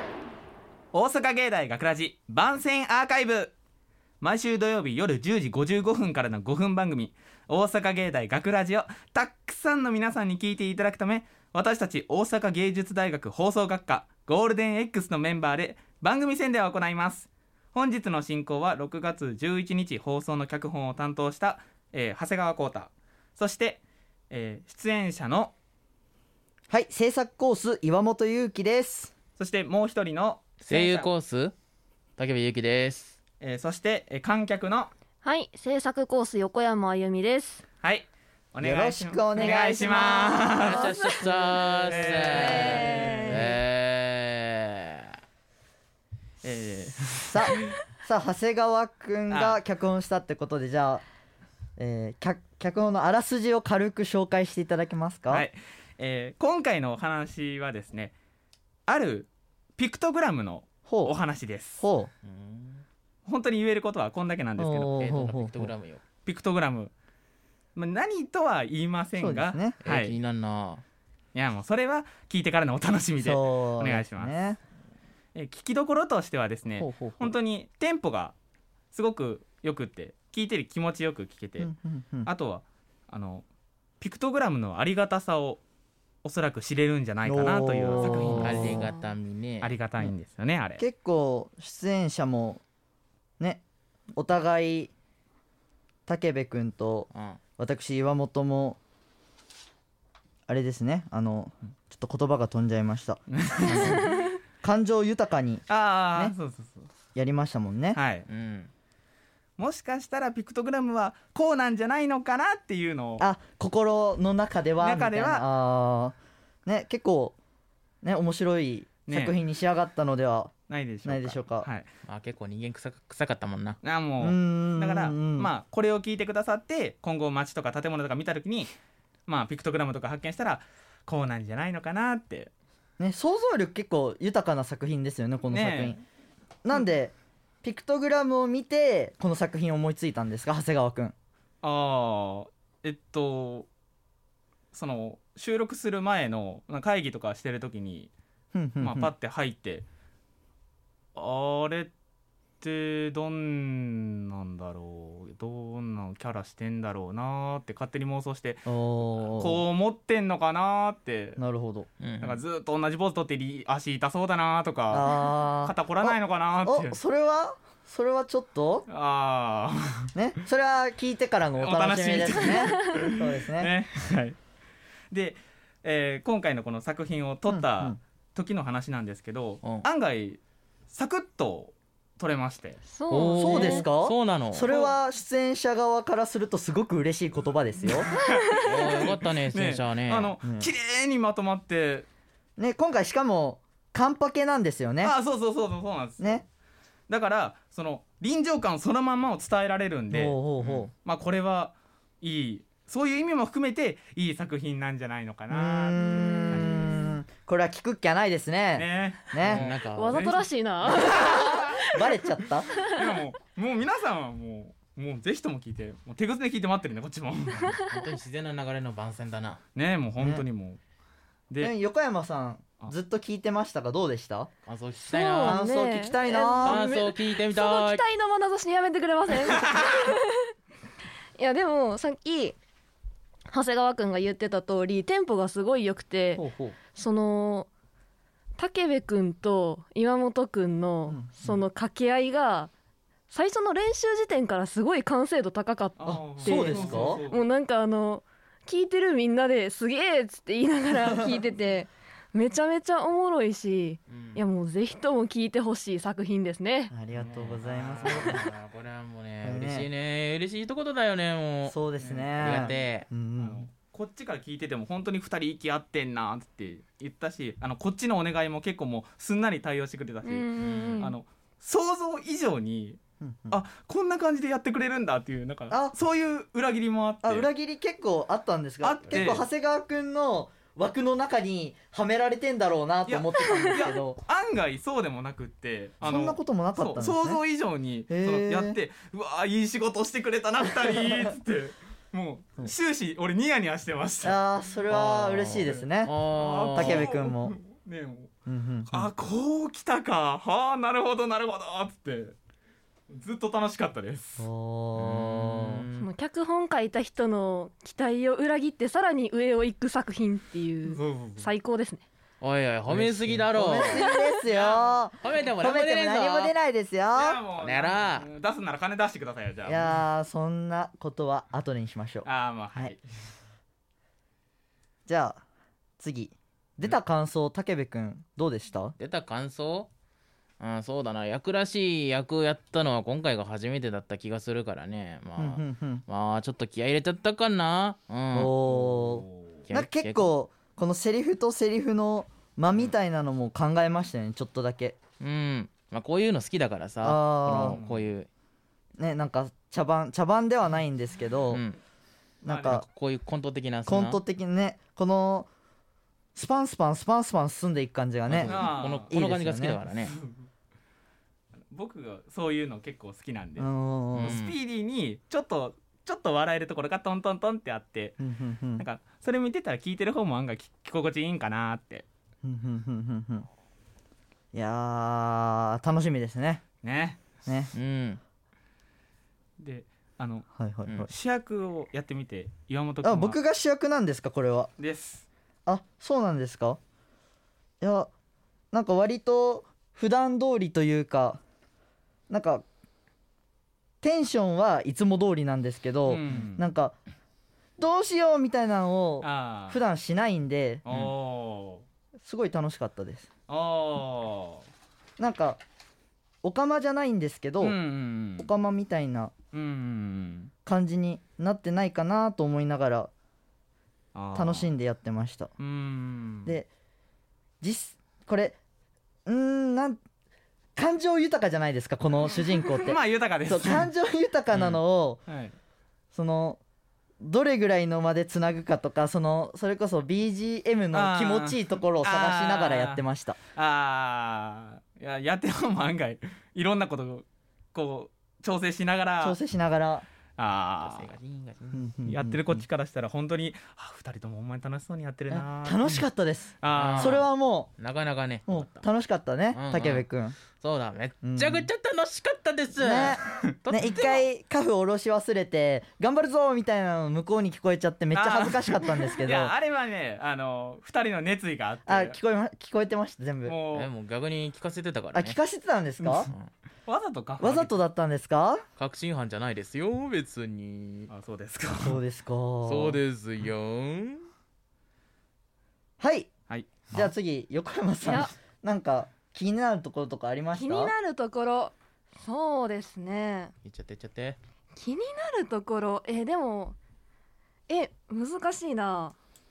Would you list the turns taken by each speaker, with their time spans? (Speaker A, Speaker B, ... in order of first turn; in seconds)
Speaker A: 0.9-3.5, 4.2-25.5, 29.4-31.1, 33.4-34.9, 37.8-40.9, 41.8-43.4, 46.4-47.6, 49.3-49.6, 55.3-58.1, 58.9-61.8, 63.3-65.0, 66.2-66.9, 67.8-70.2, 71.3-74.3, 75.3-78.3, 78.9-81.7, 82.2-83.5, 84.0-85.6, 86.2-88.9, 89.6-90.8, 103.3-104.1, 105.7-106.9, 107.9-108.2, 109.6-113.3, 114.8-115.5, 119.1-119.4, 120.7-121.9, 123.8-128.8, 129.3-132.5, 135.5-136.0, 141.6-143.7, 144.7-148.1, 148.8-149.9, 151.2-151.9, 152.6-161.4, 162.2-167.0, 168.9-170.1, 171.6-174.4, 175.1-182.8, 184.7-185.0, 188.0-192.1, 195.0-196.5, 197.1-206.9, 208.8-211.6, 212.9-217.7, 219.8-220.8, 246.0-247.4, 257.2-258.4, 262.2-262.7, 263.4-273.0, 273.5-277.5, 278.8-279.5, 283.1-294.4, 296.4-298.3, 298.9-302.4, 303.1-304.5, 310.9-311.5, 314.4-315.1, 317.1-320.0, 322.2-323.0, 338.6-339.6, 347.5-348.1, 352.4-352.8, 358.4-359.1, 360.0-360.5, 361.7-368.2, 368.8-372.1, 376.8-377.2, 379.6-380.5, 381.1-383.4, 384.8-385.3, 396.1-396.6, 399.2-399.8, 400.9-401.9, 403.5-404.6, 407.6-408.5, 409.5-410.5, 414.1-414.7, 415.6-416.6, 422.8-423.9, 424.5-425.6, 430.9-439.4, 440.4-441.1, 442.1-446.1, 446.6-447.2, 458.1-462.2, 463.4-463.9, 466.0-466.3, 466.9-467.7, 471.1-472.0, 476.5-477.1
Speaker B: 26.7-29.1, 38.6-40.8, 42.1-43.5, 47.3-51.0, 51.8-55.5, 60.9-61.1, 61.8-62.1, 64.6-65.7, 69.2-69.8, 73.2-74.6, 76.8-77.4, 81.6-82.3, 87.2-88.9, 90.8-92.6, 94.2-94.9, 96.1-98.8, 100.5-106.3, 107.2-108.0, 113.2-116.2, 116.7-117.4, 118.0-120.5, 121.0-121.7, 124.2-125.5, 133.0-136.0, 136.6-141.2, 148.5-149.1, 158.7-159.6, 161.4-161.9, 164.9-168.9, 170.2-173.7, 177.5-178.0, 183.3-188.1, 190.4-190.7, 192.6-195.1, 200.1-200.9, 205.5-209.7, 211.9-212.7, 220.2-220.4, 221.6-224.5, 225.4-226.9, 236.4-236.8, 241.1-241.6, 246.1-247.2, 256.9-258.4, 259.4-259.9, 261.7-263.7, 273.2-273.6, 277.2-284.2, 286.0-287.4, 288.1-288.8, 294.2-296.1, 296.7-297.6, 298.5-299.1, 304.4-305.9, 312.9-317.4, 319.6-322.9, 325.1-325.4, 326.0-329.0, 335.4-336.0, 338.3-345.0, 347.0-347.8, 349.0-351.6, 352.4-352.9, 353.9-355.5, 356.4-359.8, 363.6-364.4, 368.2-368.9, 372.4-373.5, 374.5-376.6, 377.4-377.7, 380.6-381.1, 383.0-384.7, 385.7-386.8, 387.8-388.1, 388.7-391.4, 392.3-392.6, 394.0-396.9, 397.8-400.9, 402.2-403.3, 405.2-405.6, 406.4-407.8, 408.4-409.3, 410.7-413.1, 414.3-415.5, 417.6-418.6, 419.3-420.0, 420.8-425.2, 426.1-426.6, 427.2-433.4, 439.2-440.1, 441.7-442.6, 445.3-447.7, 448.5-450.4, 451.2-451.7, 452.8-459.5, 461.9-463.6, 465.1-466.3, 467.4-468.6, 471.8-473.0, 476.0-476.3, 476.9-480.9
Speaker C: 30.6-31.5, 32.2-33.1, 40.6-45.1, 62.2-62.9, 65.0-66.0, 69.8-70.8, 88.3-89.8, 97.1-97.4, 108.3-108.7, 122.1-123.8, 162.0-162.4, 183.1-184.7, 188.6-190.3, 209.4-210.2, 217.8-219.6, 224.7-225.6, 226.6-228.0, 254.1-254.4, 257.2-263.1, 270.6-271.0, 294.9-297.1, 305.0-306.1, 312.4-314.1, 315.2-316.5, 317.6-318.3, 329.0-329.9, 330.6-338.6, 339.7-340.3, 345.2-348.3, 351.5-351.8, 352.7-354.2, 358.3-360.1, 364.1-364.6, 377.7-378.2, 440.8-441.9, 446.7-448.9, 449.5-454.3, 463.7-465.4, 468.8-471.1, 472.6-474.3, 483.6-484.4
Speaker D: 35.2-37.6, 40.6-41.7, 42.3-43.5, 88.0-89.0, 182.9-183.8, 188.2-189.0, 206.0-207.1, 209.9-212.2, 225.1-230.4, 231.4-232.6, 233.5-237.7, 238.6-242.7, 243.3-256.9, 270.2-271.2, 306.0-312.1, 314.0-314.3, 478.0-478.3, 480.5-483.5, 484.8-486.8, 487.7-489.1